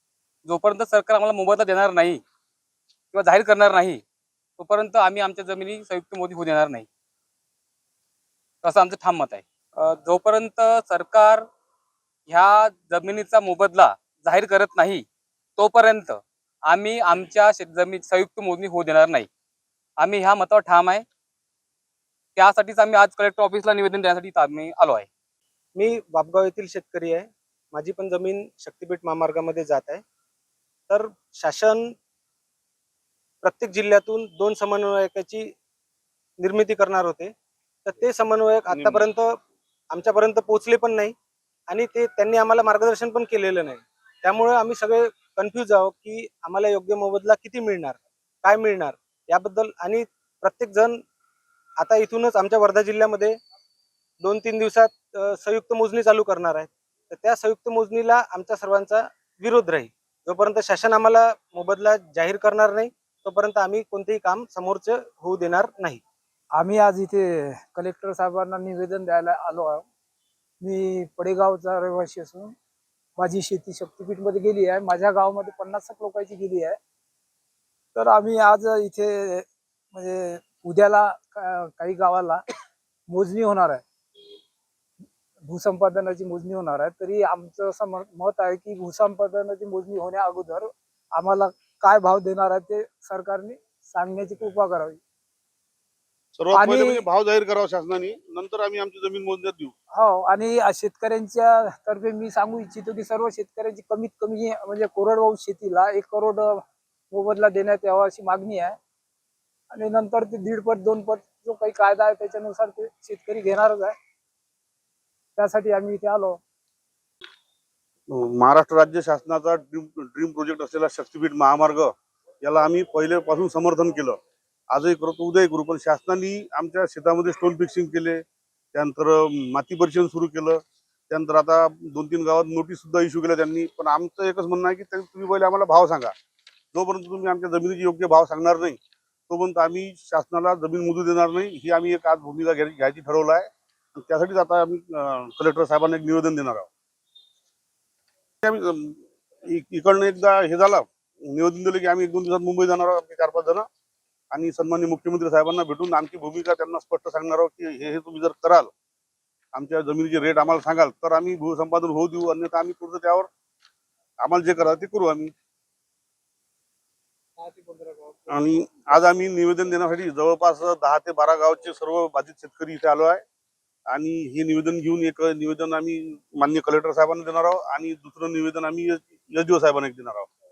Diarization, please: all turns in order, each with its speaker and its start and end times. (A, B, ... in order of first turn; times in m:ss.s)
0:00.4-0:02.2 A
0:03.1-0:04.0 A
0:04.6-0:06.9 A
0:08.6-0:11.5 A
0:12.3-0:15.0 A
0:15.6-0:19.3 A
0:20.0-0:21.0 A
0:22.4-0:25.1 A
0:25.8-0:30.0 B
0:30.9-0:31.9 B
0:33.4-0:35.5 B
0:36.4-0:37.3 B
0:37.8-0:39.4 B
0:38.7-0:39.0 C
0:39.9-0:41.2 B
0:41.7-0:51.0 B
0:51.8-0:53.4 B
0:54.2-1:06.0 B
1:06.6-1:09.9 D
1:10.6-1:12.6 D
1:13.2-1:16.8 D
1:18.0-1:22.4 D
1:23.1-1:23.8 D
1:25.4-1:35.0 D
1:36.4-1:39.7 C
1:36.5-1:37.0 D
1:39.9-1:48.8 D
1:49.7-1:54.0 D
1:55.4-1:56.4 D
1:58.1-2:04.2 C
2:04.7-2:16.2 C
2:16.7-2:18.8 C
2:19.3-2:26.7 C
2:28.4-2:33.7 C
2:34.3-2:38.7 C
2:39.5-2:43.3 C
2:44.2-2:45.3 C
2:48.3-2:53.2 C
2:53.9-3:00.3 C